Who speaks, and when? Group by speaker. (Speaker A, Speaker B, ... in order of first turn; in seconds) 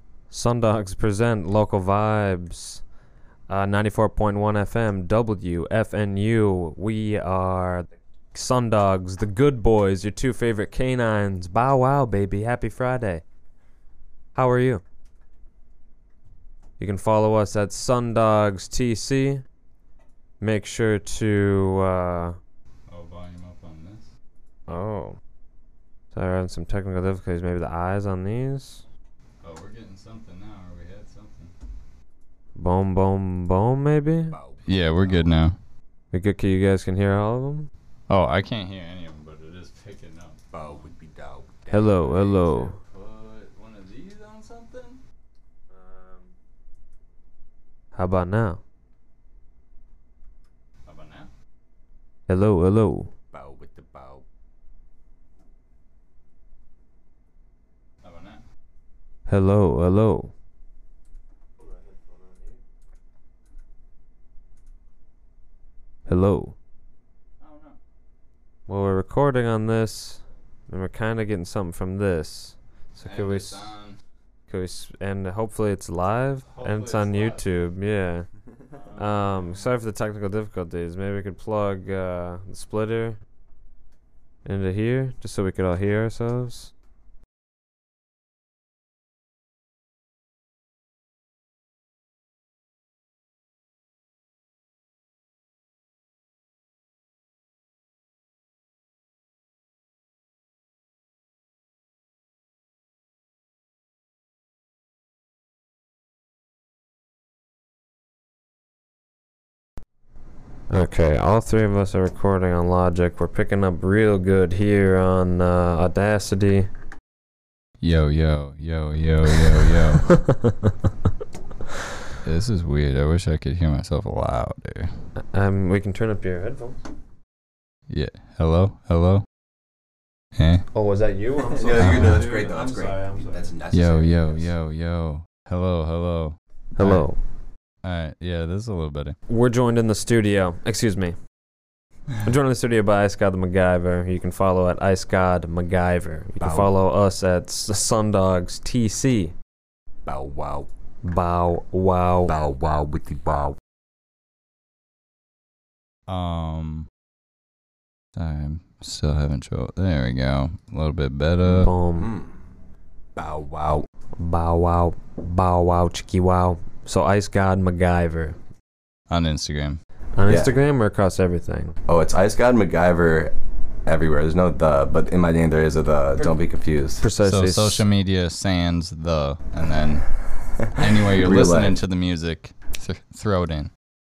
Speaker A: 0.3-2.8, 3.5-13.2, 14.3-14.8, 16.8-19.4, 20.4-22.4, 24.7-25.2, 26.1-28.8, 32.6-34.4, 36.1-37.7, 41.7-42.8, 48.0-48.6, 52.3-53.1, 59.3-60.3, 66.1-66.5, 68.7-73.7, 74.5-78.3, 79.0-83.2, 84.4-86.7, 110.7-116.7, 120.0-120.8, 125.2-126.8, 130.7-133.5, 136.8-137.2, 139.3-141.2, 142.2-149.3, 151.0-152.3, 161.5-162.1, 164.2-168.4, 170.2-171.8, 177.0-177.8
Speaker B: 22.9-24.1, 29.4-31.5, 34.7-35.6, 38.1-40.9, 42.0-45.0, 45.8-46.2, 50.9-51.3, 58.0-58.4, 67.4-67.8, 73.0-74.0, 76.5-77.4, 78.7-79.7, 117.8-120.1, 122.2-124.9, 127.9-129.2, 130.4-130.7, 131.8-132.2, 133.7-137.0, 137.8-139.2, 156.1-156.9, 158.2-161.7, 169.1-169.8, 177.2-183.7
Speaker C: 34.3-35.4, 40.5-42.2, 53.3-54.2, 131.5-134.5, 146.4-146.7, 150.1-150.7, 152.3-153.6, 161.4-162.3, 163.2-163.8, 170.2-170.5, 171.9-173.3, 173.8-177.0, 180.6-181.8